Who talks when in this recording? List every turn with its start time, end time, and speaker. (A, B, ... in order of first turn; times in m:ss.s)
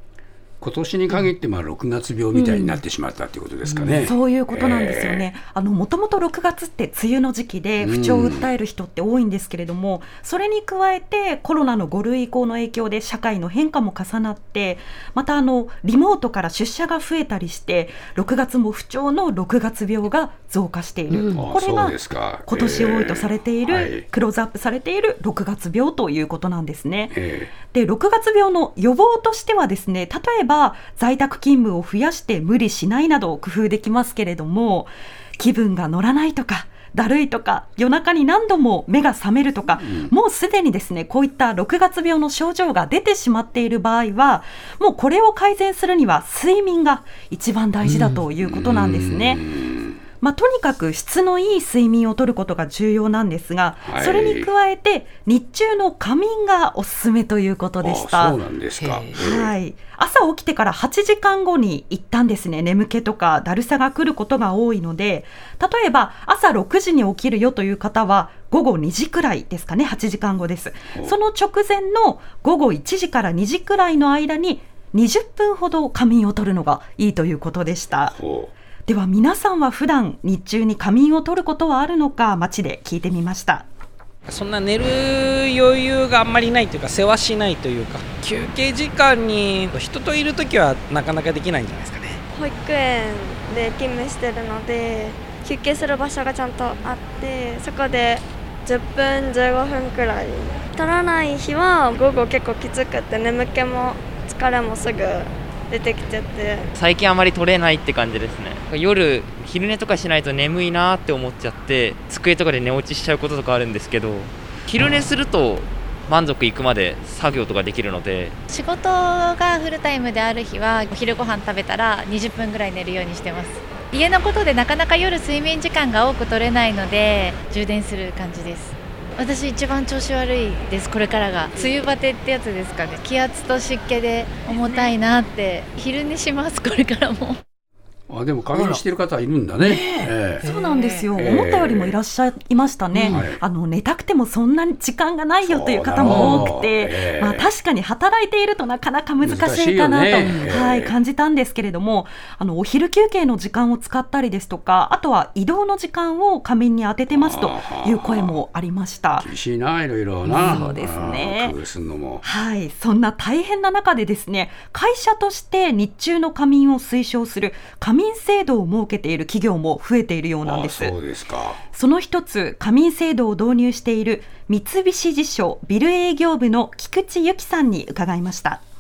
0:00.6-0:05.3 A
0:04.0-0:27.2 B
0:07.8-0:08.5 A
0:21.3-0:24.0 A
0:27.1-0:27.5 A
0:27.7-0:49.5 B
0:48.4-0:50.0 A
0:50.2-0:58.4 B
0:53.8-0:54.5 A
0:57.8-0:59.5 A
0:59.2-1:18.2 B
1:18.2-1:18.5 A
1:18.9-1:23.7 B
1:24.3-1:32.2 C
1:32.3-1:46.7 D
1:46.8-1:58.4 E
1:58.5-2:17.4 F
2:18.1-2:20.4 A
2:20.4-2:39.3 B
2:21.1-2:21.9 A
2:23.0-2:23.4 A
2:25.4-2:27.5 A
2:29.2-2:31.0 A
2:37.1-2:38.4 A
2:39.2-2:42.2 A
2:40.3-2:41.6 B
2:42.2-2:50.9 B
2:50.4-2:51.6 A
2:51.7-2:58.6 B